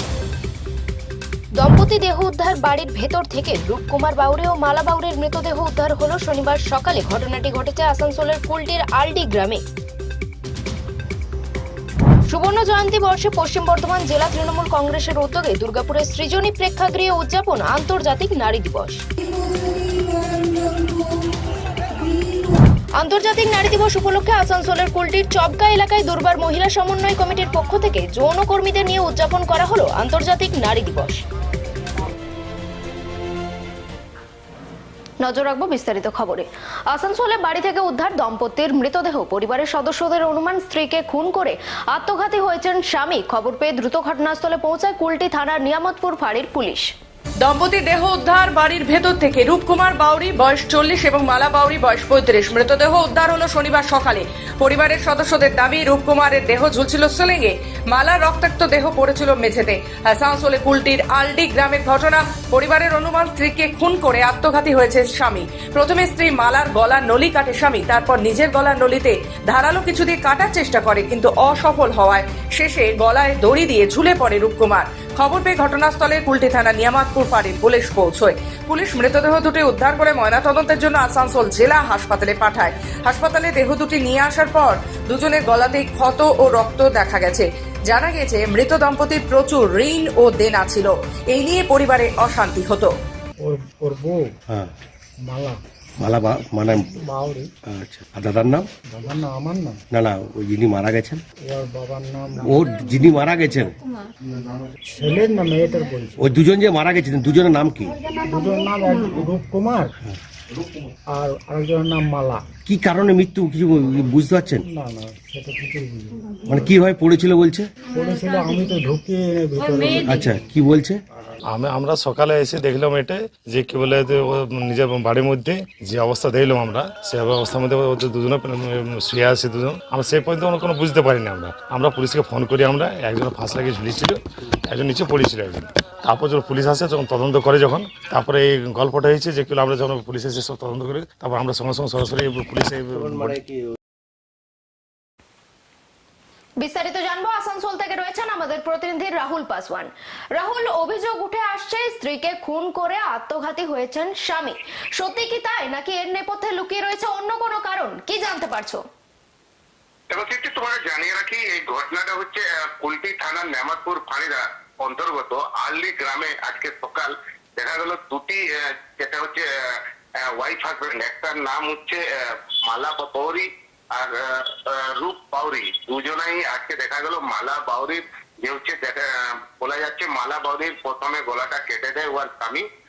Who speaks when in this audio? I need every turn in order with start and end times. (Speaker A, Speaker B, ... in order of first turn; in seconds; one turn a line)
Speaker A: 1.6-9.6
Speaker A: 12.3-19.0
Speaker A: 23.0-31.2
Speaker A: 35.2-46.9
Speaker B: 47.4-92.9
Speaker C: 93.4-94.3
Speaker C: 95.3-95.6
Speaker D: 96.0-97.0
Speaker C: 97.0-97.5
Speaker D: 97.7-98.7
Speaker C: 98.9-99.8
Speaker D: 99.9-101.2
Speaker C: 101.5-102.7
Speaker D: 102.4-103.8
Speaker C: 104.9-106.3
Speaker D: 106.2-108.0
Speaker C: 108.2-109.9
Speaker C: 111.1-112.4
Speaker D: 112.7-114.7
Speaker C: 114.7-116.7
Speaker D: 116.5-117.7
Speaker C: 117.9-120.4
Speaker D: 120.0-121.0
Speaker E: 121.5-143.4
Speaker A: 146.6-158.8
Speaker F: 160.1-167.1
Speaker F: 167.6-168.4
Speaker F: 169.0-169.4
Speaker F: 170.4-172.0
Speaker F: 172.7-173.4
Speaker F: 175.0-179.0
Speaker F: 179.6-182.6